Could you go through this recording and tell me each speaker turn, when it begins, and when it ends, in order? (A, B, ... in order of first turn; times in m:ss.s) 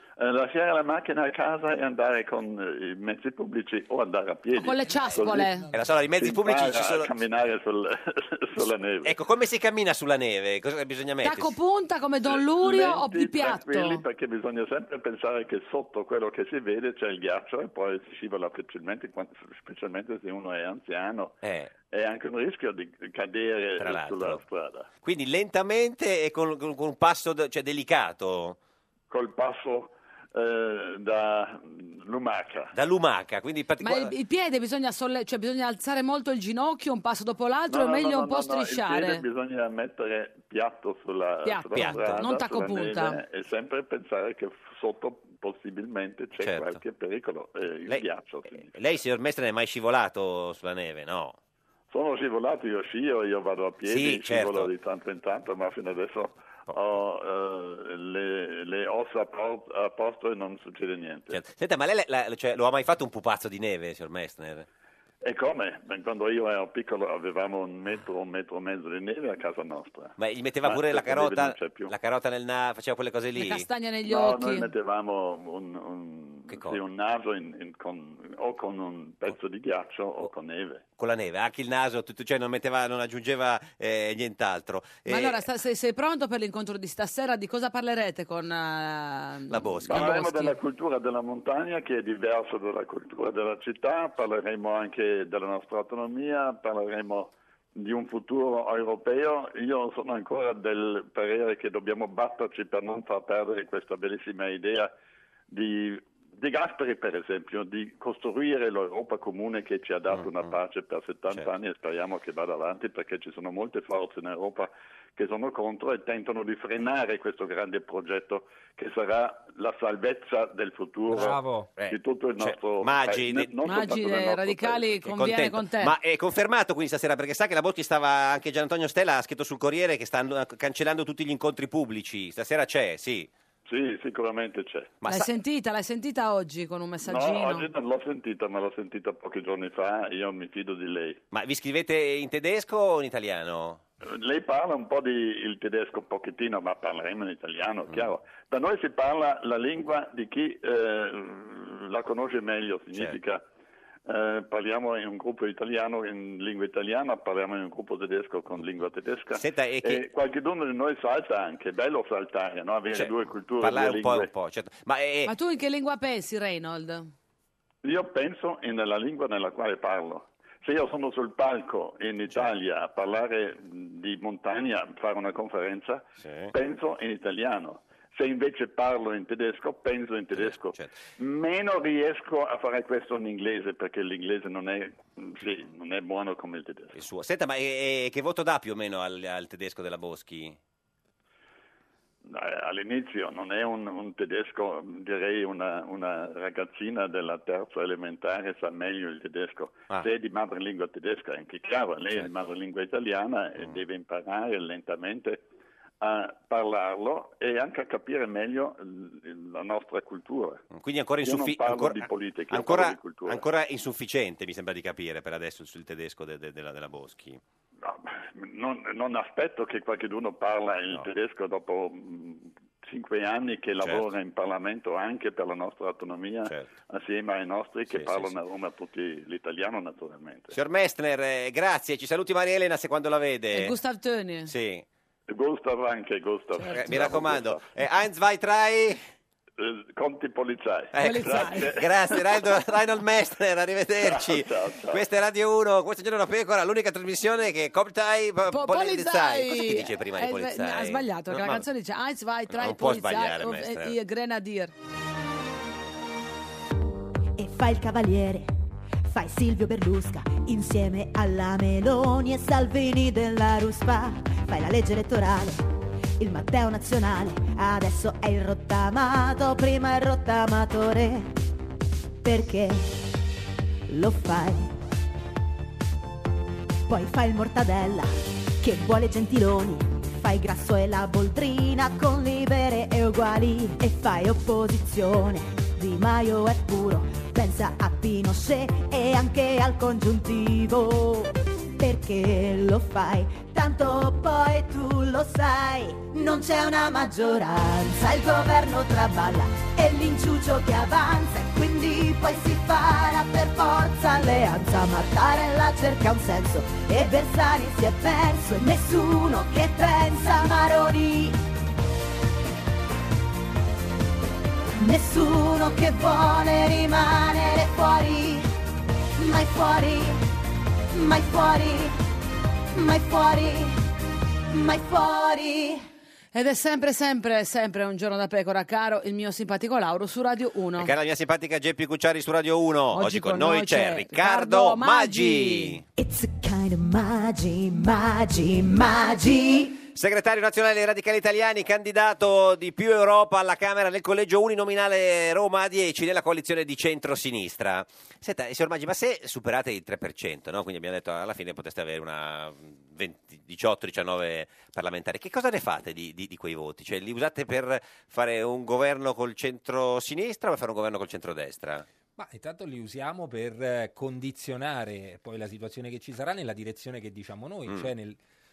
0:00.2-0:05.5 A
0:04.6-0:05.7 B
0:05.0-0:05.9 C
0:05.7-0:07.1 D
0:06.2-0:09.2 A
0:09.0-0:11.5 D
0:11.2-0:14.0 B
0:12.2-0:21.4 A
0:21.4-0:21.7 D
0:21.9-0:24.9 A
0:23.8-0:24.4 D
0:25.0-0:28.6 D
0:29.1-0:32.7 A
0:32.7-0:34.1 D
0:33.8-0:39.2 B
0:37.7-0:48.7 A
0:41.4-0:43.2 B
0:41.7-0:42.2 D
0:46.4-0:46.8 D
0:48.6-0:51.4 D
0:51.9-1:01.4 A
0:53.8-0:54.7 D
0:56.7-0:57.0 D
1:01.3-1:04.7 D
1:05.2-1:11.9 A
1:10.2-1:13.7 D
1:13.4-1:14.7 B
1:14.1-1:20.8 A
1:16.5-1:16.8 D
1:21.0-1:25.4 D
1:25.1-1:30.6 B
1:29.5-1:30.2 D
1:29.9-1:44.9 A
1:45.5-2:05.0 A
1:50.1-1:50.6 D
2:01.1-2:01.8 C
2:01.1-2:03.8 D
2:03.6-2:05.9 B
2:05.0-2:13.3 D
2:13.7-2:15.0 A
2:15.0-2:15.3 D
2:15.1-2:17.7 B
2:17.0-2:21.2 A
2:21.3-2:23.8 D
2:24.0-2:33.4 A
2:34.1-2:44.3 A
2:39.3-2:40.0 D
2:42.9-2:45.3 D
2:45.3-2:47.1 B
2:47.8-3:07.0 A
2:56.2-2:56.5 D
3:00.3-3:00.9 D
3:07.0-3:10.6 D
3:12.2-3:25.4 A
3:26.0-3:30.6 A
3:30.7-3:37.4 D
3:31.2-3:33.4 A
3:37.8-3:50.6 A
3:43.8-3:44.1 D
3:47.9-3:48.4 D
3:50.5-3:53.8 D
3:53.5-3:54.5 B
3:54.5-3:54.8 D
3:55.3-3:57.7 A
3:56.6-3:57.0 B
3:56.7-3:59.0 D
3:59.6-4:02.4 A
4:00.9-4:11.6 D
4:01.0-4:01.8 B
4:04.0-4:05.0 A
4:08.5-4:14.7 B
4:12.5-4:14.0 D
4:17.4-4:18.5 E
4:19.1-4:25.6 E
4:26.2-4:31.3 E
4:32.2-4:33.0 E
4:33.9-4:34.7 E
4:36.9-5:11.4 E
5:14.8-5:18.5 E
5:19.2-5:20.2 E
5:20.9-5:22.0 E
5:22.7-5:23.8 E
5:24.5-5:25.8 E
5:26.3-5:30.9 B
5:30.8-5:35.8 D
5:32.9-5:35.8 B
5:36.0-5:39.8 E
5:39.9-6:01.8 D
6:02.2-6:08.2 C